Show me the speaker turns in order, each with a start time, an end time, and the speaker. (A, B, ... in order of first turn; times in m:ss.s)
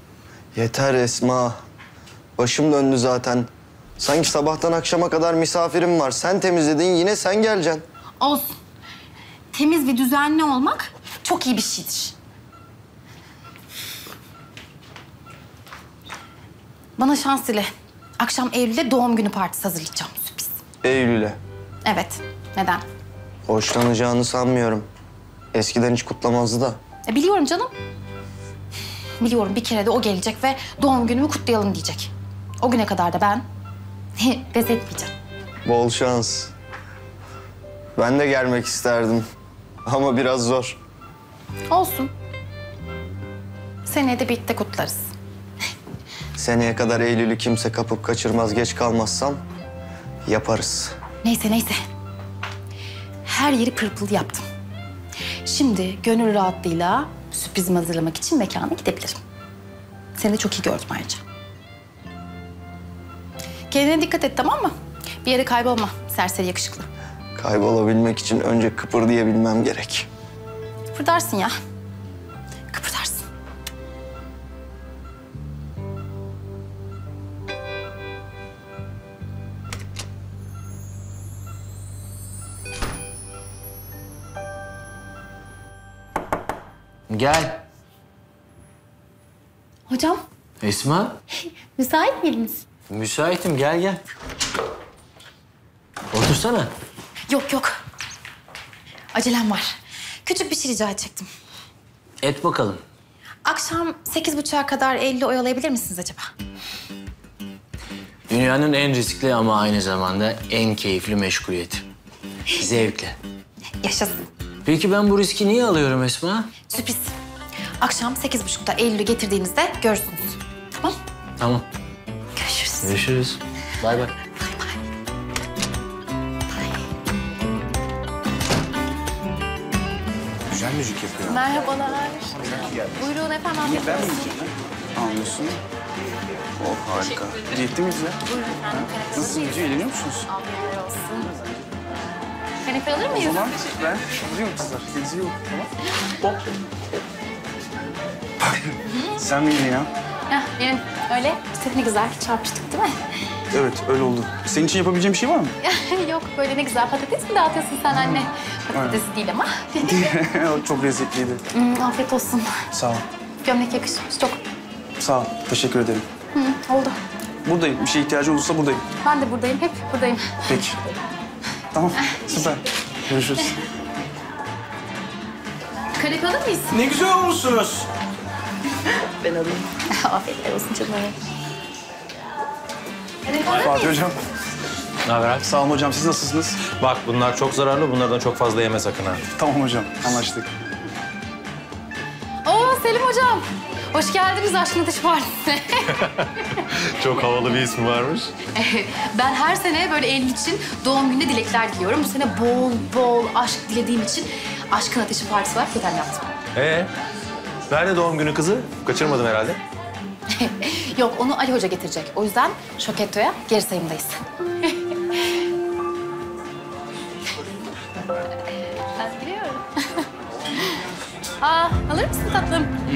0:00.5-0:01.5 A
0:02.4-0:07.8 A
0:08.2-0:08.5 B
0:09.5-0:12.1 B
0:17.0-0:20.6 B
0:20.8-0:21.4 A
0:21.8-0:22.8 B
0:23.5-0:24.9 A
0:25.5-0:26.8 A
0:27.1-0:27.7 B
0:29.2-0:33.4 B
0:34.2-0:35.1 B
0:35.6-0:36.5 A
0:38.0-0:39.2 A
0:39.8-0:40.8 A
0:41.7-0:42.1 B
0:43.8-0:45.0 B
0:46.4-0:49.4 A
0:50.2-0:51.0 A
0:51.2-0:51.8 B
0:53.2-0:54.4 B
0:55.4-0:59.2 B
1:00.2-1:01.2 B
1:03.7-1:04.7 B
1:05.2-1:06.9 B
1:07.4-1:10.1 A
1:10.9-1:11.5 B
1:12.7-1:13.2 B
1:27.1-1:27.6 C
1:29.9-1:30.2 B
1:30.6-1:31.2 C
1:31.3-1:32.6 B
1:32.9-1:34.0 C
1:36.1-1:36.7 C
1:37.3-1:37.8 B
1:39.1-1:41.3 B
1:42.2-1:42.8 C
1:43.4-1:46.3 B
1:48.3-1:51.8 C
1:52.5-1:53.2 C
1:53.8-1:54.3 B
1:54.6-1:56.5 C
1:56.7-1:57.1 B
1:57.8-2:01.0 B
2:01.4-2:01.6 C
2:02.4-2:03.0 B
2:02.8-2:04.1 C
2:04.3-2:04.8 B
2:10.5-2:11.2 C
2:11.2-2:14.4 B
2:13.6-2:15.6 D
2:16.6-2:18.2 D
2:18.2-2:21.3 B
2:18.7-2:20.3 D
2:22.6-2:23.5 B
2:23.1-2:25.7 D
2:28.4-2:29.9 D
2:28.8-2:29.2 B
2:30.3-2:33.0 B
2:33.5-2:35.5 D
2:35.6-2:40.2 B
2:37.9-2:39.0 D
2:39.8-2:41.4 D
2:41.5-2:42.7 B
2:42.7-2:43.0 D
2:43.4-2:44.4 B
2:45.0-2:46.1 D
2:46.3-2:47.0 B
2:47.4-2:48.8 D
2:49.0-2:50.5 B
2:50.4-2:50.8 D
2:51.7-2:53.6 D
2:52.1-2:52.3 B
2:55.9-2:56.9 B
2:56.9-2:57.8 C
2:59.8-3:01.2 B
3:03.2-3:04.0 B
3:03.6-3:04.2 D
3:05.0-3:05.4 E
3:05.4-3:06.6 D
3:06.7-3:09.2 E
3:09.4-3:10.5 D
3:12.4-3:16.0 B
3:16.2-3:18.3 E
3:18.5-3:26.3 B
3:26.6-3:26.9 E
3:27.7-3:29.6 E
3:30.3-3:35.4 B
3:39.0-3:40.1 B
3:41.4-3:42.7 B